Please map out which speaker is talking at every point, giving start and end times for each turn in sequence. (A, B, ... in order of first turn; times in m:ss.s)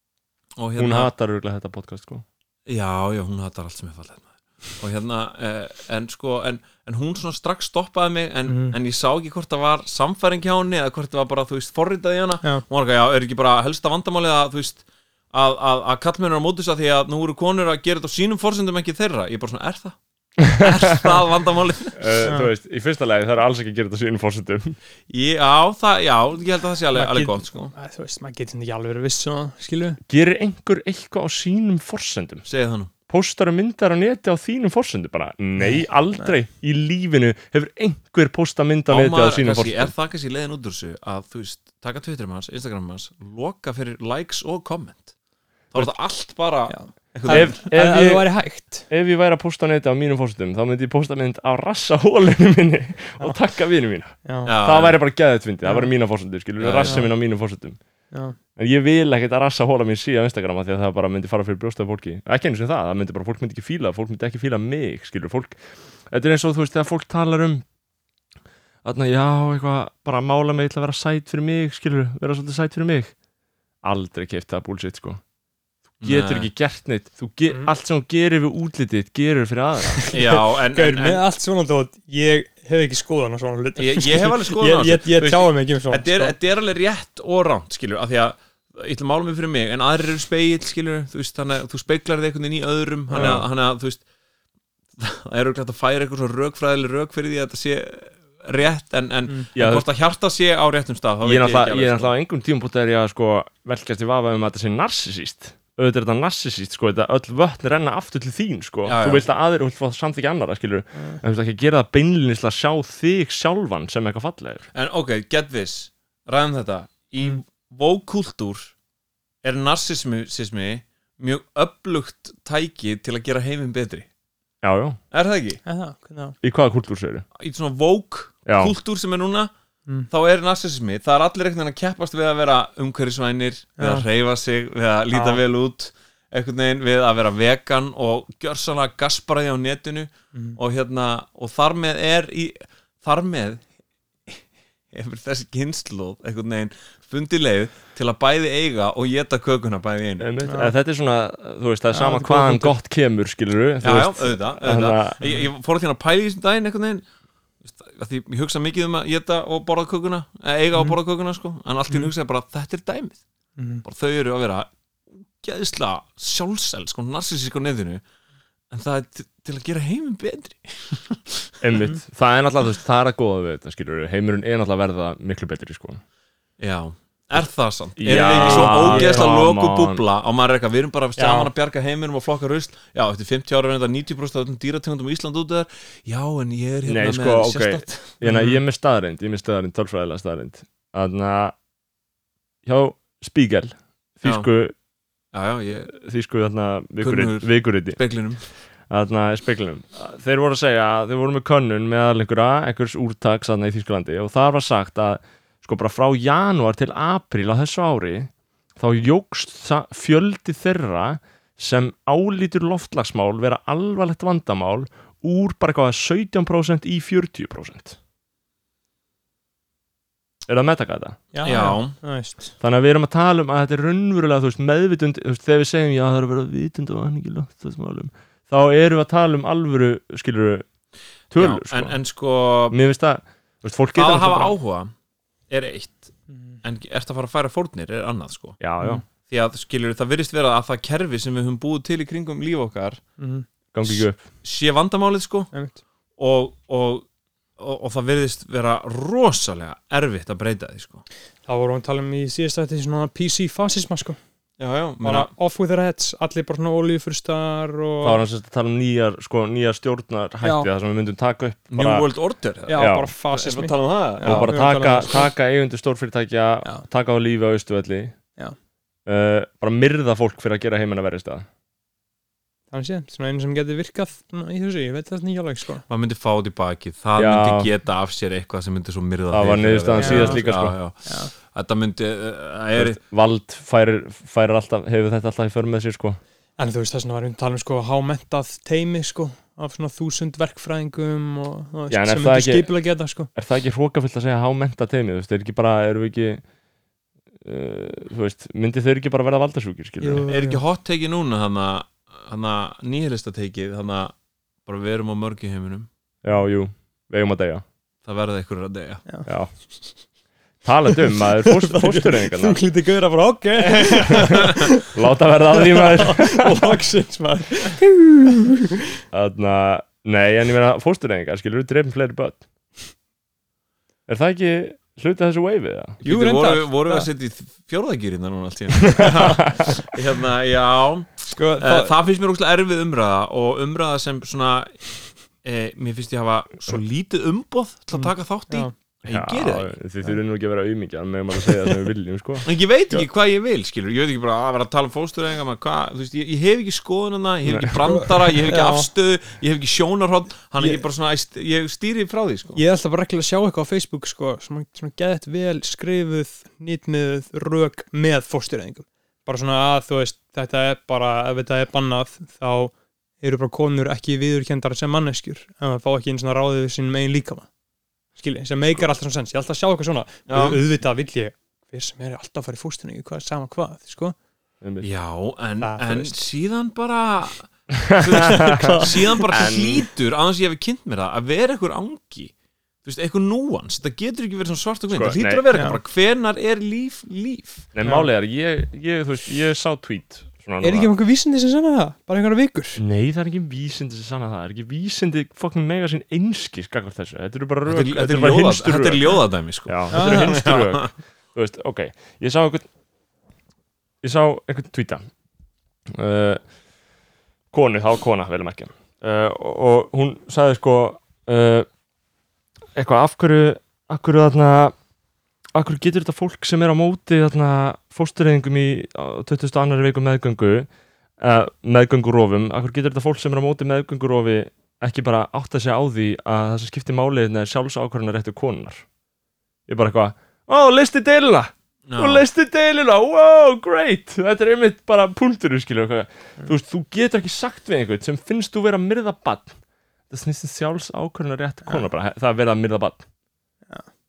0:00.6-0:01.1 A
0:00.8-0:02.2 B
0:02.7-0:22.3 A
0:08.5-0:08.8 C
0:22.0-0:24.8 B
0:22.2-0:22.5 C
0:25.1-0:27.7 A
0:26.9-0:30.0 C
0:30.1-0:32.4 B
0:32.4-0:32.9 A
0:33.1-0:39.9 B
0:35.6-0:36.3 C
0:38.9-0:45.1 A
0:45.7-0:47.6 A
0:46.7-0:48.9 C
0:47.3-1:07.6 B
0:53.2-0:53.4 C
0:54.2-0:54.5 C
0:54.4-0:55.0 A
0:55.6-0:55.9 C
0:56.6-0:57.0 A
0:56.8-0:57.1 C
0:58.1-0:58.4 C
1:08.8-1:13.2 B
1:13.8-1:15.2 B
1:16.0-1:20.0 B
1:16.0-1:16.5 A
1:20.0-1:26.3 C
1:20.1-1:21.2 A
1:23.8-1:34.0 A
1:33.1-1:33.4 C
1:33.1-1:33.4 B
1:35.0-1:42.1 A
1:39.5-1:39.8 B
1:41.2-1:54.7 B
1:48.8-1:49.2 A
1:50.9-1:51.2 C
1:54.7-1:58.7 A
1:59.4-2:04.1 A
2:04.6-2:05.0 B
2:05.1-2:05.6 A
2:05.6-2:06.4 C
2:06.4-2:07.2 B
2:07.4-2:09.5 A
2:08.4-2:08.7 B
2:10.1-2:23.7 A
2:13.8-2:14.0 C
2:15.1-2:15.4 C
2:24.3-2:30.3 A
2:30.2-2:35.2 B
2:30.4-2:30.7 C
2:31.9-2:32.7 C
2:33.8-2:37.1 A
2:37.6-2:43.2 A
2:43.6-2:43.8 C
2:43.8-2:48.0 A
2:48.7-2:51.5 A
2:51.6-2:56.0 B
2:56.6-3:08.2 A
2:58.0-3:00.0 B
2:58.1-2:59.3 C
3:01.2-3:01.5 C
3:06.8-3:11.6 B
3:08.2-3:08.6 C
3:12.6-3:14.7 B
3:15.3-3:15.9 A
3:15.8-3:18.0 B
3:17.0-3:18.5 A
3:18.9-3:38.0 B
3:40.4-3:41.2 B
3:41.3-3:42.4 C
3:41.4-3:42.0 A
3:42.6-3:50.7 B
3:51.3-3:52.0 B
3:51.4-3:52.8 A
3:52.7-3:54.6 B
3:54.0-3:54.9 A
3:55.5-3:58.6 A
3:56.3-3:56.6 C
3:58.6-3:59.0 B
3:59.2-4:03.0 A
4:03.2-4:03.4 C
4:03.7-4:04.2 B
4:03.8-4:05.5 A
4:05.5-4:05.8 C
4:06.2-4:11.0 A
4:11.4-4:14.2 C
4:14.6-4:15.3 A
4:15.0-4:18.2 C
4:18.0-4:22.1 B
4:20.4-4:20.7 C
4:21.7-4:24.5 A
4:22.7-4:25.3 C
4:22.8-4:23.1 B
4:24.2-4:28.2 B
4:29.0-4:31.4 B
4:32.7-4:35.8 C
4:35.9-4:43.0 A
4:37.2-4:37.7 B
4:39.3-4:40.8 B
4:40.0-4:40.4 C
4:41.0-4:41.3 C
4:42.7-4:46.2 B
4:46.6-4:53.3 C
4:51.9-4:56.4 B
4:57.4-5:00.3 B
5:00.0-5:00.6 C
5:00.3-5:05.9 A
5:06.2-5:07.6 B
5:08.0-5:09.1 A
5:09.0-5:10.0 C
5:09.2-5:09.9 B
5:10.6-5:12.6 B
5:11.4-5:14.9 C
5:13.6-5:14.4 A
5:14.7-5:16.8 B
5:15.5-5:18.5 C
5:19.1-5:22.5 B
5:24.1-5:26.0 B
5:26.0-5:39.7 A
5:26.0-5:27.1 C
5:31.3-5:31.9 C
5:37.9-5:38.7 C
5:39.0-5:42.5 B
5:42.4-5:52.6 A
5:47.5-5:47.7 B
5:47.8-5:48.9 C
5:50.6-5:50.8 C
5:52.5-6:07.5 C
6:08.1-6:14.2 C
6:10.3-6:10.6 A
6:14.6-6:14.9 B
6:14.8-6:22.3 A
6:15.6-6:16.1 C
6:17.9-6:19.9 B
6:18.2-6:19.2 C
6:22.8-6:27.7 A
6:24.9-6:25.5 B
6:25.5-6:25.8 C
6:27.7-6:30.9 B
6:27.8-6:28.1 C
6:30.6-6:32.8 C
6:32.8-6:42.7 B
6:37.6-6:40.9 A
6:39.9-6:40.4 C
6:44.0-6:45.1 B
6:45.9-6:46.5 B
6:47.5-6:51.7 B
6:52.7-6:54.8 B
6:55.5-7:08.8 B
7:09.7-7:19.6 B
7:11.9-7:12.2 A
7:20.1-7:23.0 B